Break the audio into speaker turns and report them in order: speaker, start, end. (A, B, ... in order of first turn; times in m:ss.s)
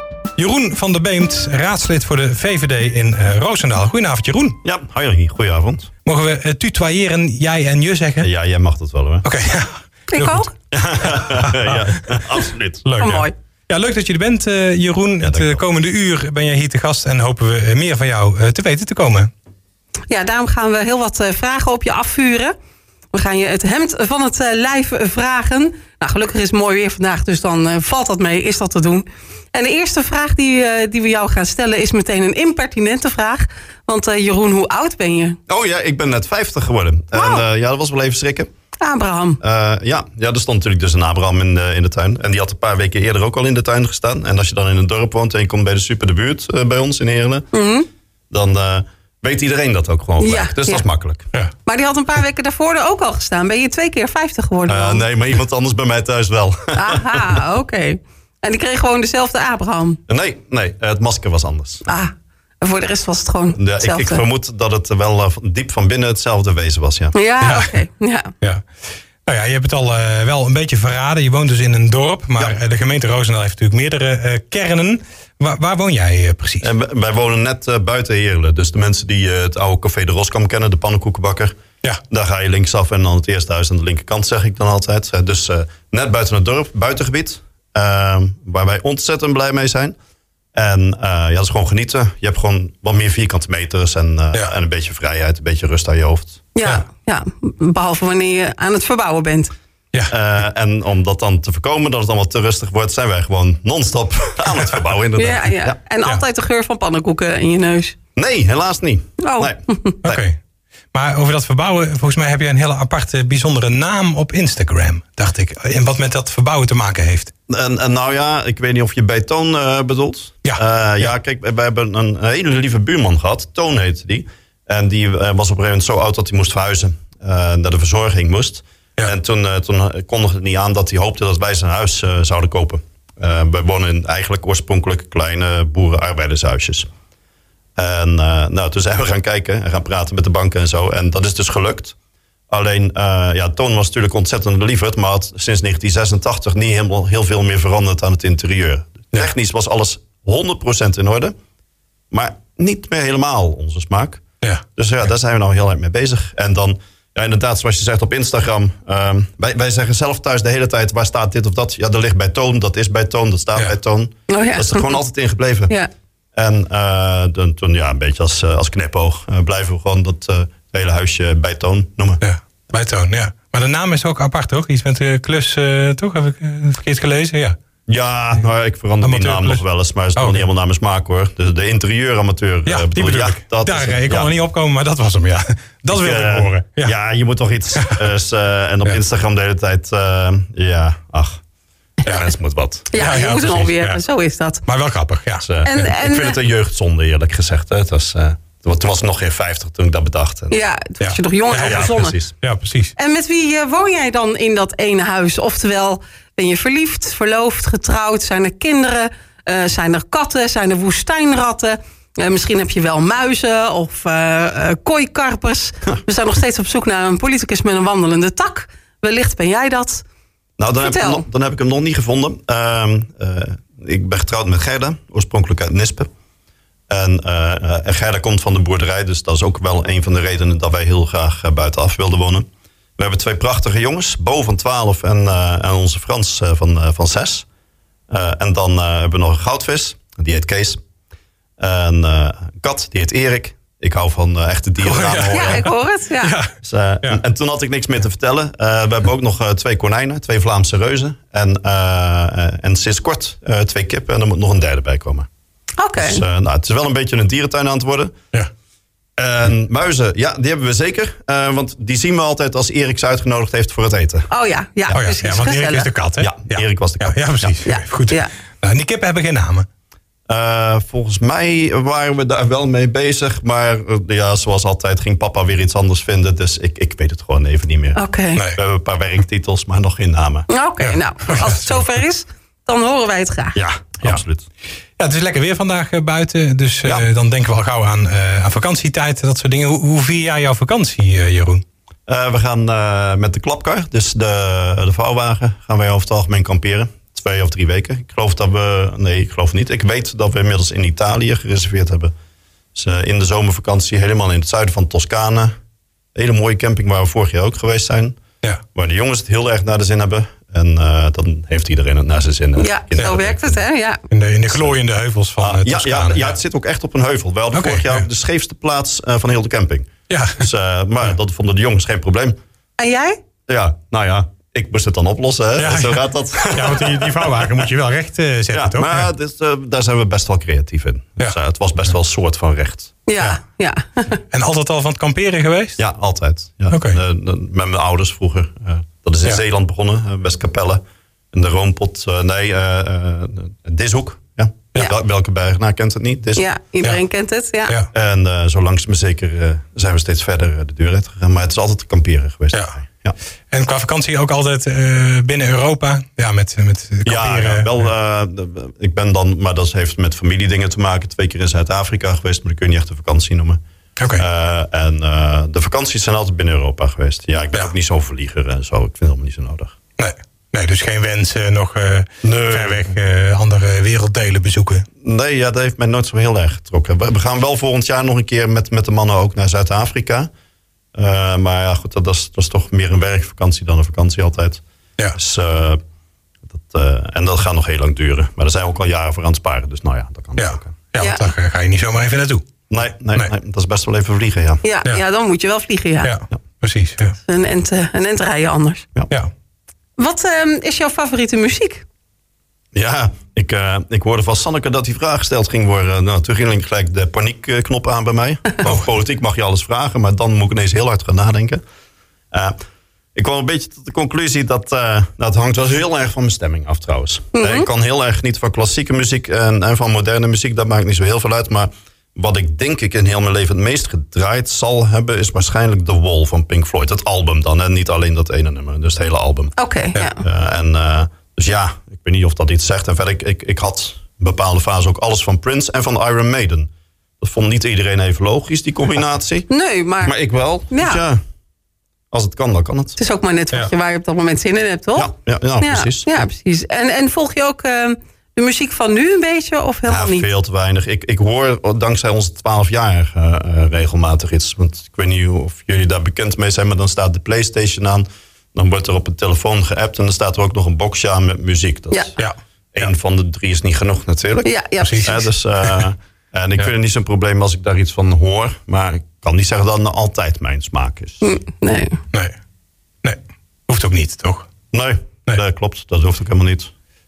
0:00.4-0:04.6 A
0:04.6-0:05.9 B
0:06.0-0:08.3 A
0:08.2-0:09.3 B
0:09.2-0:10.5 A
0:10.1-0:10.5 C
0:10.7-0:12.8 B
0:11.0-0:11.8 A
0:12.8-0:19.3 A
0:13.0-0:13.3 C
0:15.2-0:15.6 B
0:20.1-0:22.5 C
0:23.1-0:35.4 C
0:35.5-0:38.5 B
0:37.1-0:37.4 C
0:38.8-0:39.4 C
0:39.4-0:47.5 B
0:47.5-0:47.9 C
0:48.3-0:51.3 B
0:50.2-0:50.8 C
0:51.7-0:55.0 C
0:54.7-0:57.4 B
0:56.7-1:00.0 C
1:00.1-1:01.8 B
1:01.8-1:04.2 C
1:03.6-1:07.2 B
1:07.1-1:08.3 C
1:07.4-1:07.7 A
1:09.3-1:16.7 A
1:16.6-1:21.6 B
1:22.1-1:30.0 B
1:30.6-1:36.4 B
1:36.6-1:39.5 C
1:40.1-1:45.8 B
1:45.2-1:48.0 C
1:48.2-1:50.2 B
1:49.2-1:50.0 C
1:50.0-1:50.4 A
1:50.9-1:57.3 A
1:57.5-2:16.9 B
2:00.4-2:01.1 A
2:17.8-2:22.0 B
2:22.5-2:31.3 B
2:32.1-2:34.2 B
2:34.8-2:45.7 B
2:44.3-2:45.0 C
2:46.4-2:52.2 B
2:52.2-2:57.6 A
2:57.9-3:04.3 B
2:59.0-2:59.6 A
3:00.2-3:00.4 A
3:02.7-3:06.9 A
3:05.9-3:11.4 B
3:07.8-3:08.0 A
3:12.0-3:13.0 B
3:12.9-3:14.6 C
3:12.9-3:14.0 A
3:14.7-3:15.5 A
3:15.4-3:20.6 B
3:15.6-3:16.4 C
3:20.5-3:22.2 C
3:21.0-3:23.0 A
3:21.6-3:22.3 B
3:23.0-3:40.0 C
3:40.6-3:46.1 B
3:40.8-3:41.2 C
3:46.9-3:57.5 B
3:58.1-4:00.8 B
4:01.6-4:05.7 B
4:04.8-4:06.5 A
4:05.3-4:06.4 C
4:06.6-4:15.3 B
4:15.8-4:16.2 C
4:16.0-4:18.2 B
4:19.2-4:24.3 B
4:24.3-4:25.9 C
4:24.9-4:29.7 A
4:26.2-4:27.6 B
4:27.6-4:28.3 C
4:30.3-4:38.0 B
4:38.0-4:38.4 C
4:38.5-4:40.5 B
4:40.5-4:43.6 C
4:40.8-4:41.8 A
4:43.5-4:44.5 B
4:45.0-4:51.6 A
4:52.1-5:02.1 B
5:02.8-5:05.6 B
5:06.2-5:08.2 B
5:08.8-5:13.6 B
5:12.6-5:14.0 C
5:14.1-5:16.4 A
5:14.5-5:14.8 B
5:15.4-5:22.4 B
5:17.5-5:18.1 A
5:20.1-5:20.5 A
5:22.8-5:23.2 C
5:23.5-5:27.7 B
5:25.6-5:29.1 A
5:28.5-5:32.9 B
5:33.1-5:34.2 C
5:34.3-5:35.8 A
5:35.8-5:46.5 B
5:36.7-5:37.0 A
5:46.4-5:47.7 C
5:47.9-5:53.2 B
5:53.5-5:57.7 A
5:57.0-6:03.6 B
6:04.0-6:04.2 A
6:04.2-6:09.8 B
6:10.0-6:14.9 A
6:12.2-6:12.9 B
6:15.0-6:20.3 B
6:21.0-6:24.6 B
6:25.2-6:25.8 B
6:26.5-6:30.8 B
6:30.4-6:32.5 A
6:31.0-6:31.3 C
6:32.7-6:34.6 B
6:34.6-6:36.1 C
6:36.0-6:37.2 A
6:37.2-6:38.9 C
6:40.0-6:41.8 C
6:42.7-6:51.6 B
6:52.3-6:52.6 B
6:53.2-7:09.6 B
6:57.3-6:57.7 C
7:09.6-7:10.2 C
7:10.1-7:19.5 B
7:19.5-7:20.2 C
7:20.0-7:21.2 B
7:20.7-7:21.0 C
7:22.1-7:23.0 B
7:23.0-7:30.3 C
7:25.0-7:26.1 B
7:29.9-7:51.3 B
7:42.2-7:42.9 A
7:44.4-7:45.3 C
7:44.8-7:45.8 A
7:51.2-7:52.0 C
7:53.0-7:54.5 A
7:54.7-7:56.7 B